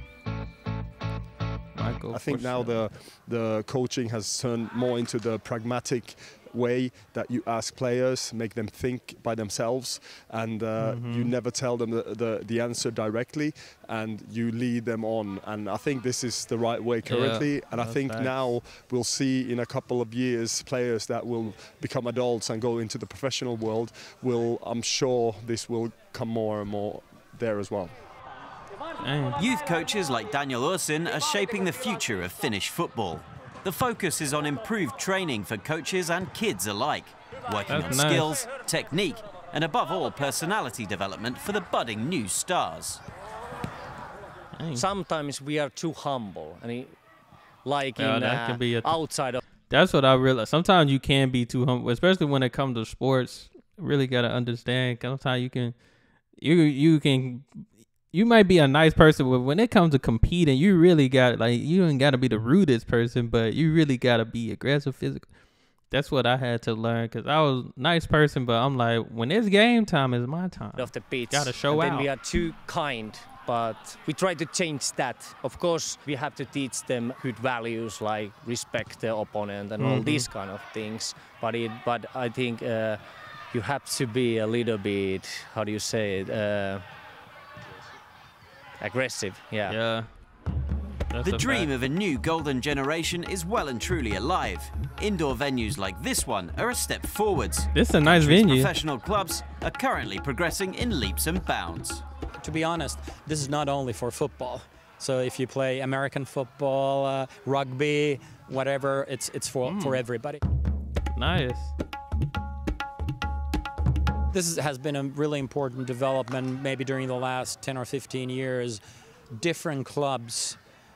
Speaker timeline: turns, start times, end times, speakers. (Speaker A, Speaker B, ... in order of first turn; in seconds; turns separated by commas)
Speaker A: 1.8-2.8, Speaker B: 2.1-28.0, Speaker A: 10.8-11.3, Speaker A: 17.1-18.5, Speaker A: 29.0-29.4, Speaker C: 29.4-43.0, Speaker A: 37.7-38.3, Speaker A: 44.5-44.9, Speaker D: 44.7-47.0, Speaker D: 47.6-49.4, Speaker A: 48.0-49.0, Speaker A: 49.7-65.3, Speaker A: 65.9-72.1, Speaker D: 70.8-86.8, Speaker A: 79.8-80.3, Speaker D: 88.8-89.8, Speaker A: 89.7-90.1, Speaker A: 91.1-91.7, Speaker C: 91.2-102.0, Speaker A: 97.7-98.7, Speaker E: 102.4-110.4, Speaker A: 109.6-110.0, Speaker A: 111.1-111.7, Speaker E: 114.3-118.8, Speaker E: 119.3-120.6